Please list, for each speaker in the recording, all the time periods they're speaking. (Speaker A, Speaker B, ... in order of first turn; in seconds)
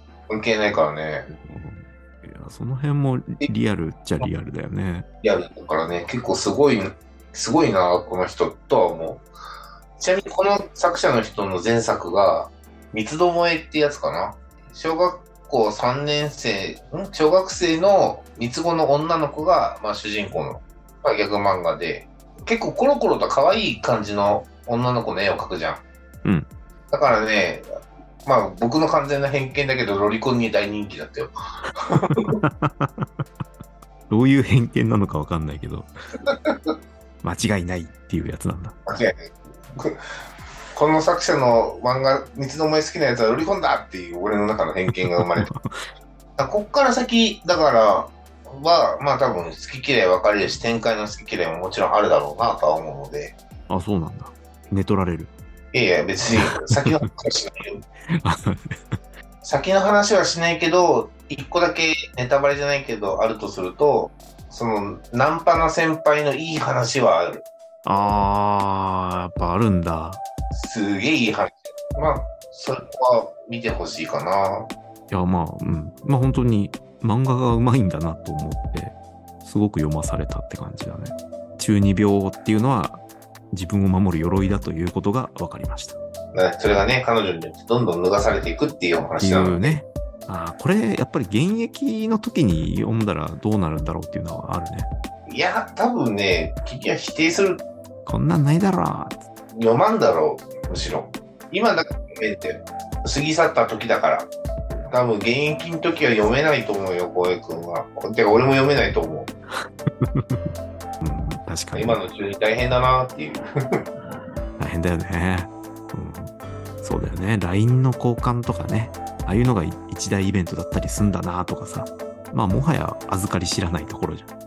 Speaker A: 0.3-1.3, 5.2-9.3, 10.0-25.8, 26.9-27.6, 28.2-31.3, 31.9-32.3, 36.3-36.7, 38.9-40.0, 40.7-45.5, 46.4-53.3, 55.7-57.8, 59.4-67.4, 70.5-74.7, 86.3-89.8, 95.3-97.7, 99.5-104.3, 104.9-109.3, 111.7-113.4
Speaker B: 1.3-5.1, 26.2-26.5, 32.1-33.1, 34.1-35.9, 37.2-38.8, 44.9-45.7, 53.7-55.3, 56.5-57.1, 58.1-59.0, 67.8-70.2, 75.1-86.0, 89.2-94.9, 98.0-99.2, 110.0-110.5, 111.0-112.0, 114.6-124.3